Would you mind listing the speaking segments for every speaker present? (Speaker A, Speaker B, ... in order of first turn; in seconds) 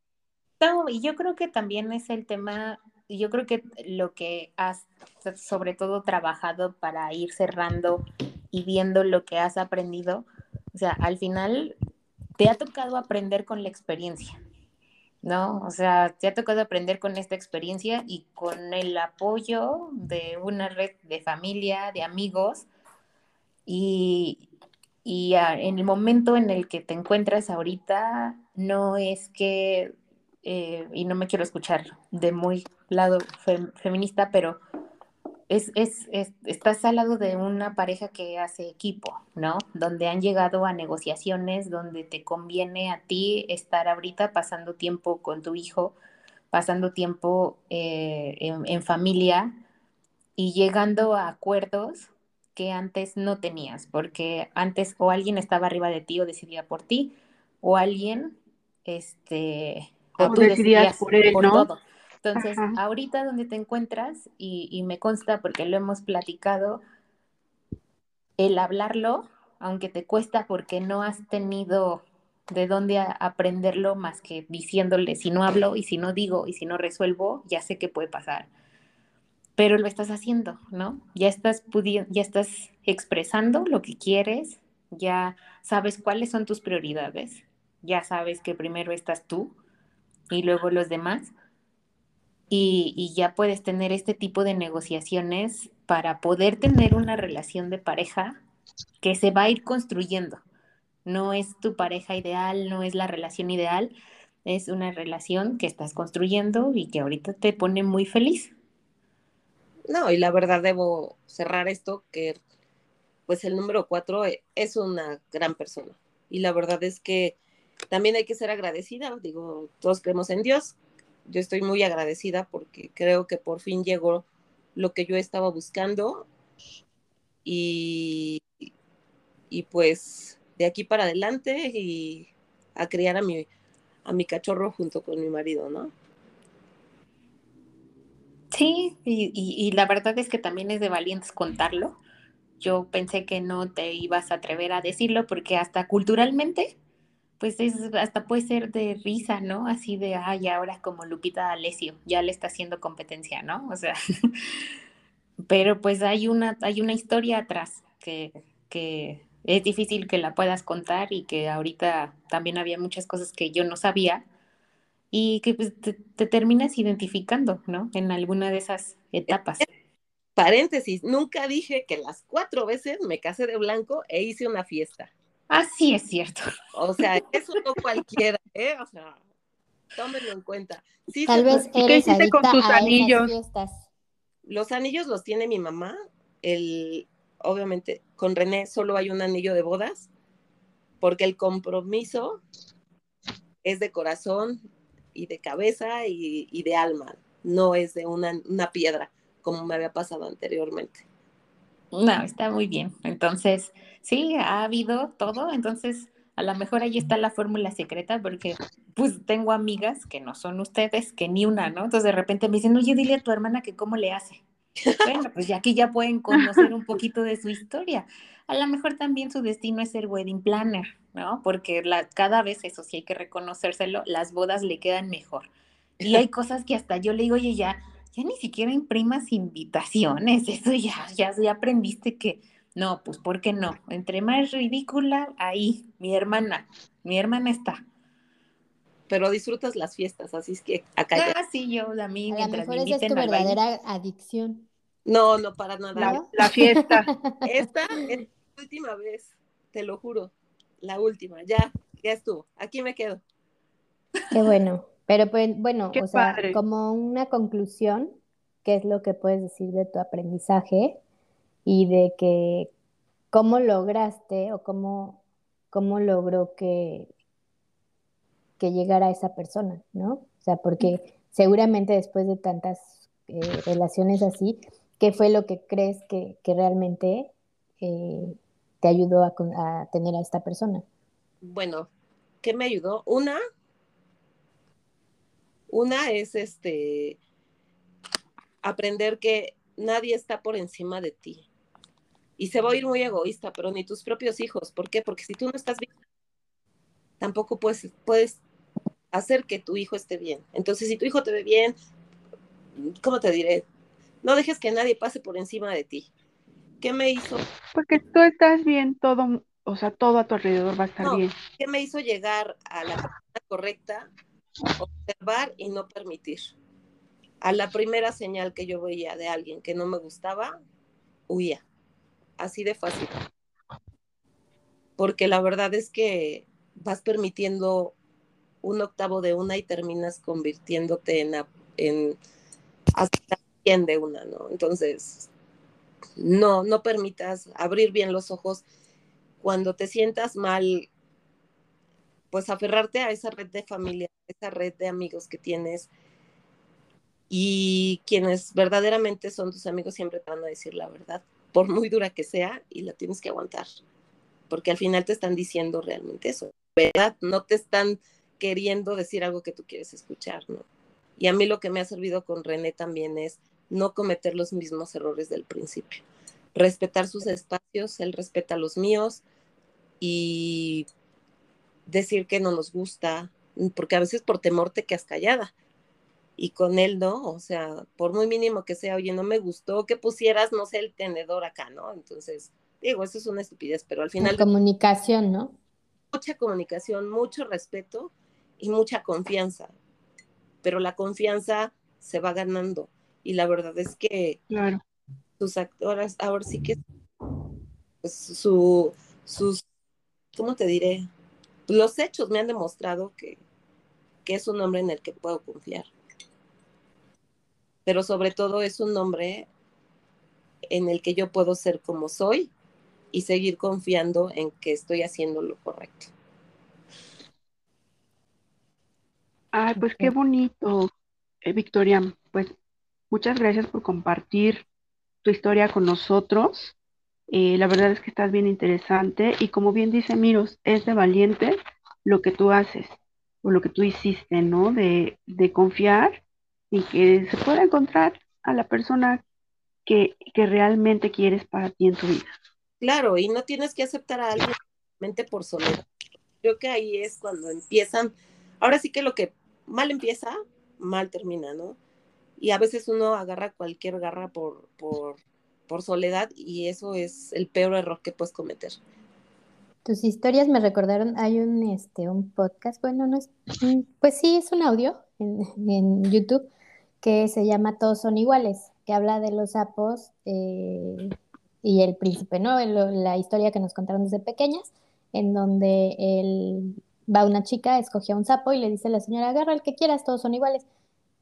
Speaker A: 0.6-11.8, 12.4-14.4, 15.2-22.7, 23.7-24.5, 25.0-29.9, 30.4-34.6, 35.5-46.0, 46.5-49.5, 50.4-66.8, 68.4-78.5, 79.6-89.5, 90.3-91.3, 92.5-98.4, 99.0-100.4, 101.0-103.9, 104.4-108.5, 138.5-142.0, 142.6-146.8, 147.4-154.3, 155.5-164.2, 165.1-169.7, 175.5-176.4, 201.9-214.4, 215.0-225.5, 226.0-237.8, 241.1-243.6
Speaker B: 60.2-61.7, 62.3-62.8, 181.5-183.3, 245.9-247.1, 255.9-256.6, 307.7-311.3, 394.5-394.8, 419.5-420.9, 421.4-422.5, 423.1-424.6, 425.2-426.7, 427.3-439.2, 439.9-442.3
Speaker C: 109.9-112.4, 113.3-117.3, 117.9-124.2, 124.8-126.3, 127.4-128.4, 129.5-133.5, 134.0-135.9, 170.4-175.1, 176.7-179.2, 180.0-181.6, 184.4-190.1, 191.0-192.4, 193.6-194.6, 195.1-201.0, 239.1-241.3, 245.1-246.2, 247.4-253.2, 281.4-281.9, 282.4-283.4, 285.7-287.2, 288.6-291.5, 292.4-295.9, 297.2-298.4, 299.1-301.7, 302.8-303.6, 304.2-306.1, 306.8-307.4, 311.0-314.1, 314.8-316.5, 317.4-320.6, 321.3-321.6, 322.4-323.1, 325.0-327.9, 328.6-332.2, 332.9-335.3, 336.2-338.6, 339.4-340.9, 342.3-345.9, 347.3-353.7, 354.5-360.6, 361.2-366.0, 366.5-369.2, 370.0-370.9, 371.9-375.5, 376.4-384.4, 386.1-389.7, 390.6-394.4, 395.4-396.8, 398.0-399.6, 400.3-401.1, 401.7-403.4, 404.2-405.9, 407.9-409.5, 410.7-412.5, 413.1-416.1, 442.8-445.8, 446.4-451.8, 452.4-458.8
Speaker D: 181.2-183.8, 242.3-244.7, 246.0-247.3, 254.3-261.0, 261.6-262.7, 263.3-265.2, 265.7-267.1, 268.6-280.8, 384.2-385.5, 419.8-420.1, 459.8-466.5, 467.0-480.6